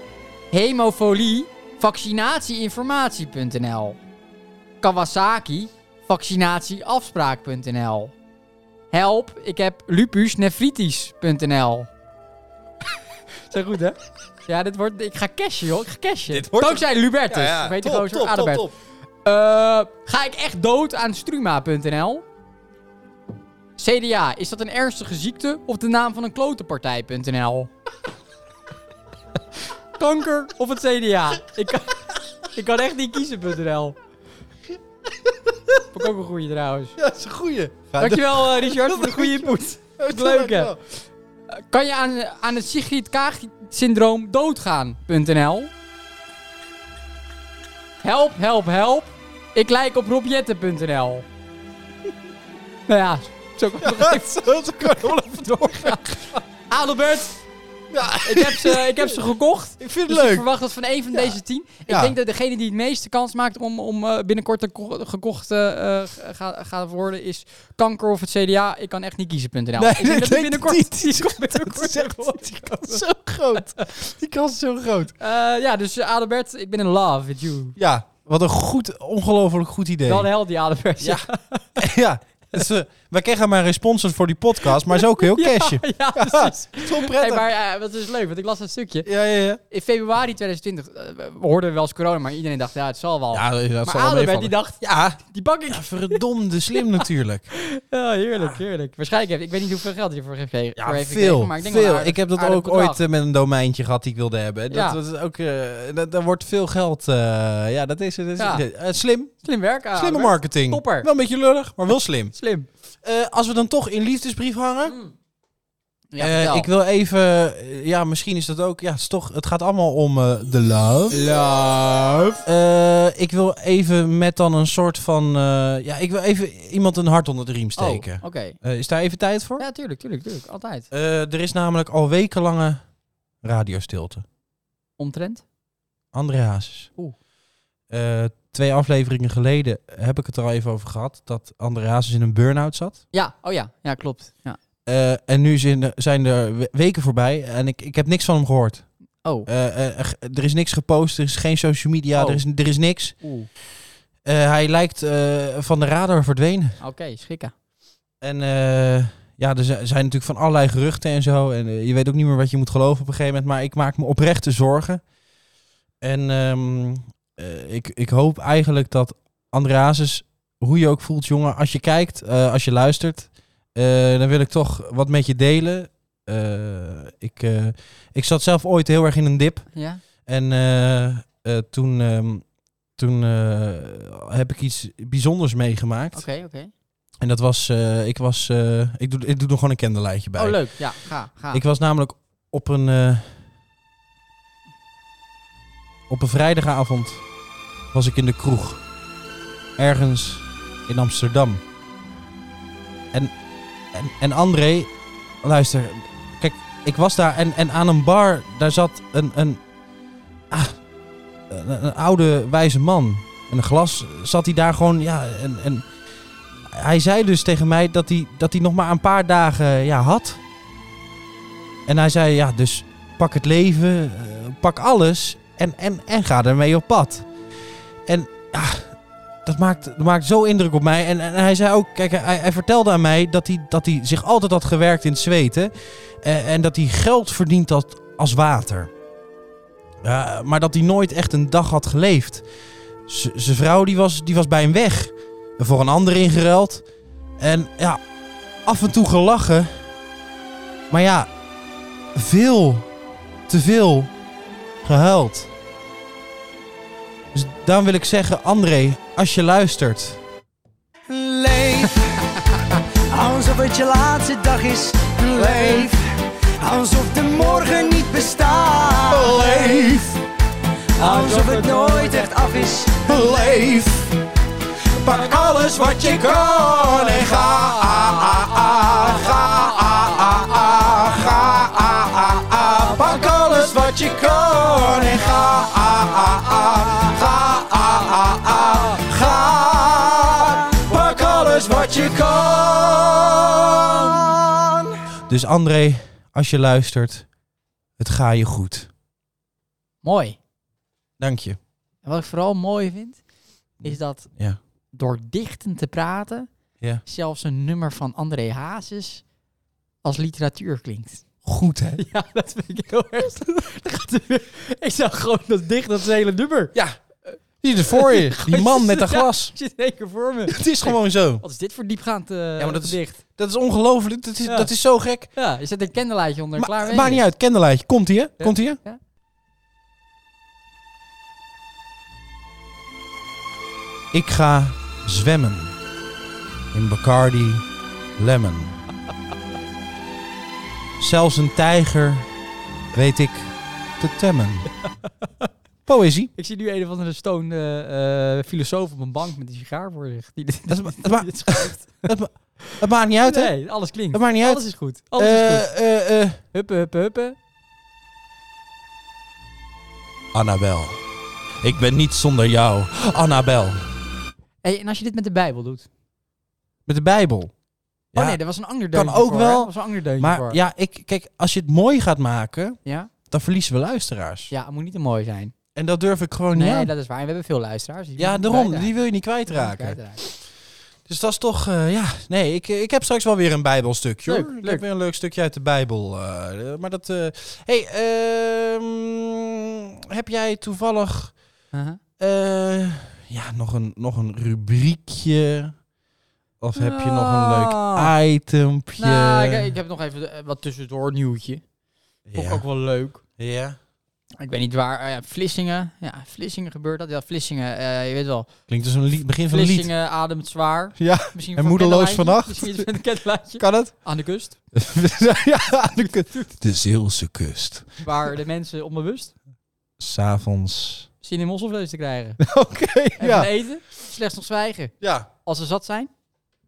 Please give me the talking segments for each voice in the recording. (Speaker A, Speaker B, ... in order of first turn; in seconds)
Speaker A: 0.5-4.0, 4.8-8.1, 8.9-11.9, 13.5-18.7, 19.2-22.2, 23.8-27.7, 29.9-34.0, 35.9-37.0, 38.0-40.7, 41.5-45.7, 48.0-51.2, 52.9-57.4, 58.2-73.0, 75.2-77.8, 80.0-81.7, 84.9-89.1, 89.7-96.2, 97.5-103.0, 104.7-105.0, 108.4-108.6, 109.4-111.1, 112.3-112.7, 114.9-115.1, 116.1-116.7, 121.1-122.4, 127.8-128.6, 129.6-130.9, 135.0-135.4, 143.1-144.6, 152.1-152.4, 153.2-153.5, 156.8-157.5, 179.7-180.0, 186.1-186.7, 190.4-191.6, 271.1-272.3, 277.8-278.4, 279.3-279.8, 300.0-300.4, 302.0-303.2, 303.8-304.3, 304.9-306.5, 307.0-309.2, 310.0-311.2, 312.0-316.7, 317.3-323.2, 324.4-324.7, 325.3-327.2, 328.4-329.0, 346.4-355.7, 356.5-357.4, 364.6-365.9, 368.1-370.6, 372.8-373.1, 374.5-375.5, 376.5-378.9, 379.5-380.2, 384.2-384.8, 391.7-392.0, 396.8-398.1, 399.0-401.6, 402.3-403.2, 404.4-408.5, 409.5-414.6, 416.0-416.5, 418.0-419.3, 421.2-422.4, 423.2-426.1
Speaker B: 16.3-18.7, 37.0-40.8, 53.8-56.4, 57.9-59.2, 59.8-60.5, 61.1-62.1, 69.8-75.1, 77.8-80.3, 81.0-81.2, 81.8-87.4, 89.0-89.6, 93.3-97.5, 100.8-109.3, 109.9-112.3, 113.0-114.9, 116.2-121.2, 122.4-129.6, 130.9-132.8, 133.4-134.2, 136.1-136.9, 137.9-143.0, 144.8-148.9, 149.4-153.2, 154.2-156.8, 158.2-165.0, 166.0-186.2, 187.2-190.8, 191.5-193.4, 196.1-197.2, 197.9-198.8, 199.8-201.6, 203.9-204.9, 205.4-209.6, 210.5-210.8, 211.5-215.8, 216.7-220.4, 221.8-227.3, 228.1-238.9, 240.0-242.4, 243.1-246.8, 247.4-248.0, 248.6-249.8, 250.9-251.3, 252.1-252.9, 253.5-254.1, 254.8-255.5, 257.3-260.2, 265.3-265.9, 269.1-270.2, 273.1-274.1, 274.9-294.3, 295.3-297.3, 298.0-298.9, 301.2-301.6, 303.8-304.6, 311.4-312.0, 317.6-319.5, 320.5-321.4, 322.6-325.3, 326.6-328.8, 334.1-335.7, 336.7-337.6, 338.2-338.7, 341.0-342.3, 342.9-344.7, 345.9-346.3, 350.7-353.5, 354.1-354.6, 355.2-356.4, 360.3-361.0, 361.6-363.9, 366.9-367.5, 368.1-368.4, 368.9-372.8, 373.3-374.5, 375.7-376.9, 378.2-380.4, 381.1-391.3, 392.2-395.8, 396.6-399.7, 402.3-402.6, 403.4-403.8, 408.7-409.9, 411.0-412.9, 413.6-413.9, 414.7-418.0, 420.0-421.1, 422.4-423.5, 425.0-425.3
Speaker C: 261.1-266.0, 266.6-269.8, 271.0-273.3